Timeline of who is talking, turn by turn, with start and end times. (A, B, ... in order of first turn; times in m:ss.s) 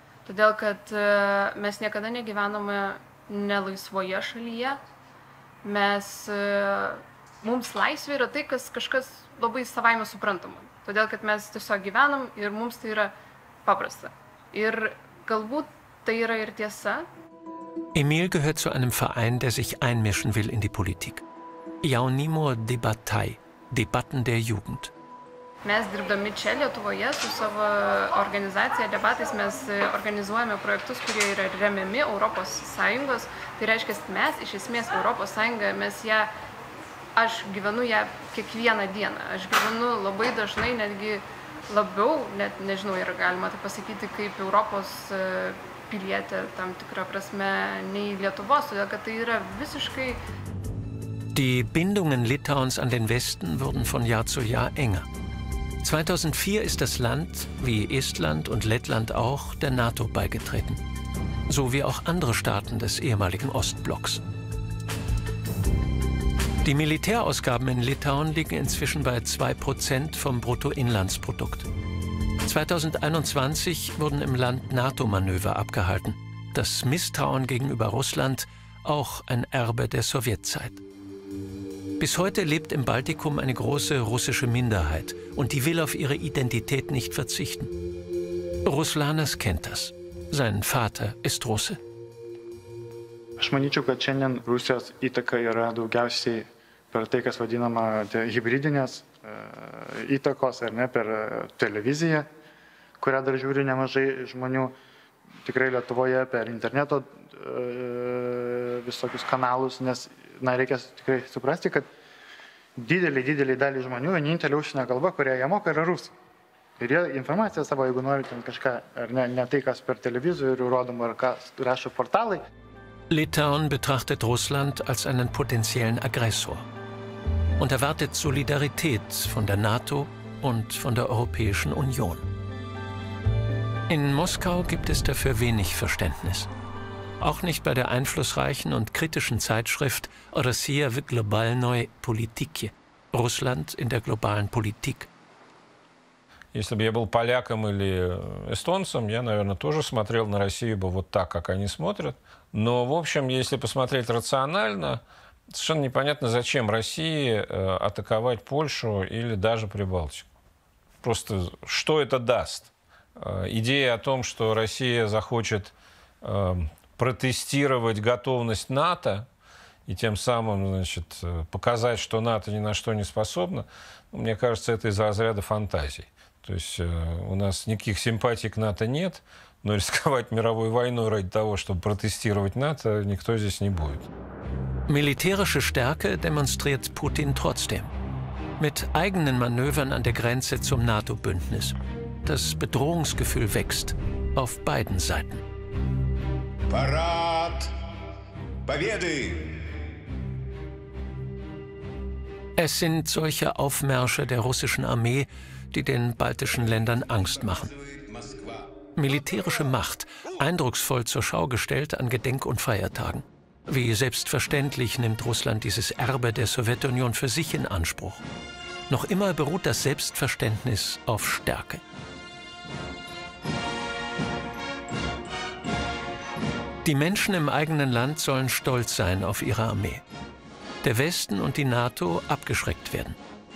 0:00.2-0:04.8 A
0:05.6-0:13.1 A
0:13.6-0:17.1 A
0:17.9-0:21.2 B
0:21.8-0:24.9 B
0:25.6-0:36.3 A
0:37.2-0:50.2 A
0:51.3-0:55.1 B
0:55.8-1:00.8 B
1:01.5-1:04.2 B
1:06.6-1:11.7 B
1:12.4-1:20.8 B
1:22.0-1:27.7 B
1:28.6-1:31.8 B
1:33.4-1:42.3 C
1:43.0-1:44.7 C
1:45.4-1:51.9 C
1:52.8-1:56.1 C
1:56.8-2:02.4 C
2:03.1-2:06.7 B
2:07.6-2:12.2 B
2:13.9-2:16.5 B
2:17.2-2:25.1 B
2:26.5-2:40.3 D
2:41.0-2:49.3 D
2:49.8-3:04.1 D
3:04.9-3:07.9 B
3:08.6-3:15.4 B
3:16.7-3:17.7 E
3:18.6-3:19.6 E
3:22.6-3:27.7 B
3:27.5-3:28.6 E
3:29.0-3:38.2 B
3:38.9-3:41.8 B
3:46.8-3:50.0 B
3:50.8-3:53.2 B